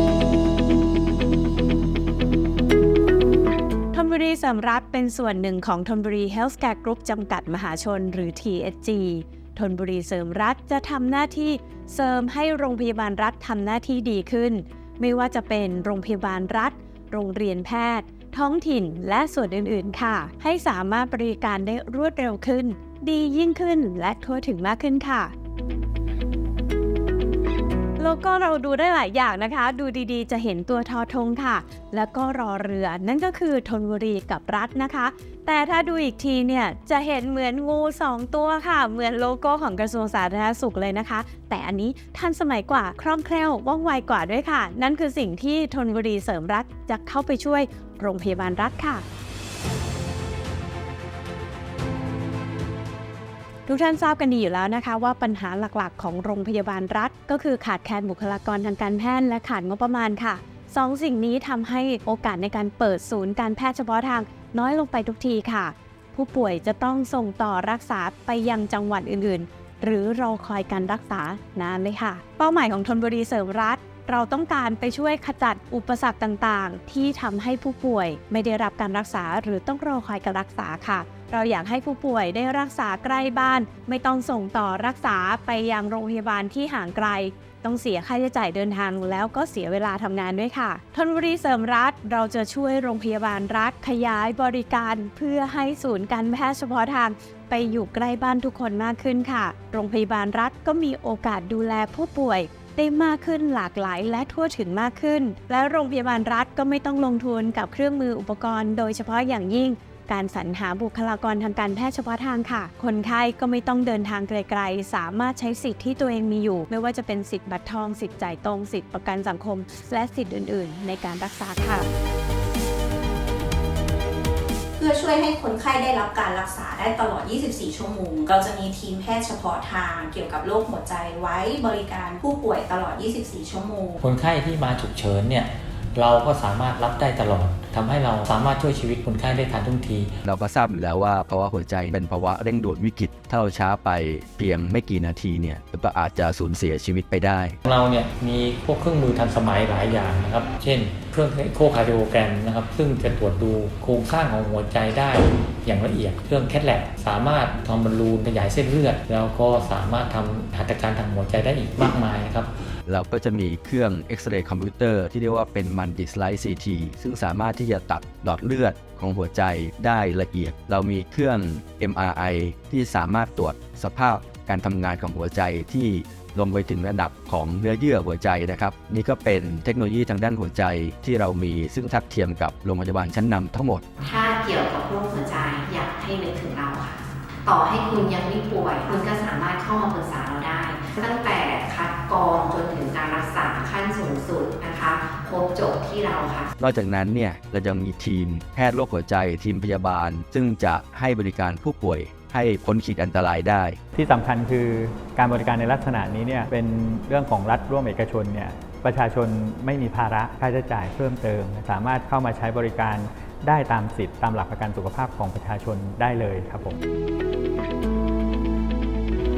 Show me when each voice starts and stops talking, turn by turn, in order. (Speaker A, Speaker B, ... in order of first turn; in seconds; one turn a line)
Speaker A: 3.9-25.3
Speaker A: 28.0-49.0
Speaker A: 53.7-121.9
Speaker B: 124.8-134.0
Speaker C: 134.0-140.1
Speaker D: 140.2-147.6
Speaker C: 147.7-162.5
Speaker D: 162.9-183.8
Speaker E: 184.0-196.4
Speaker D: 196.6-203.8
Speaker F: 203.9-216.8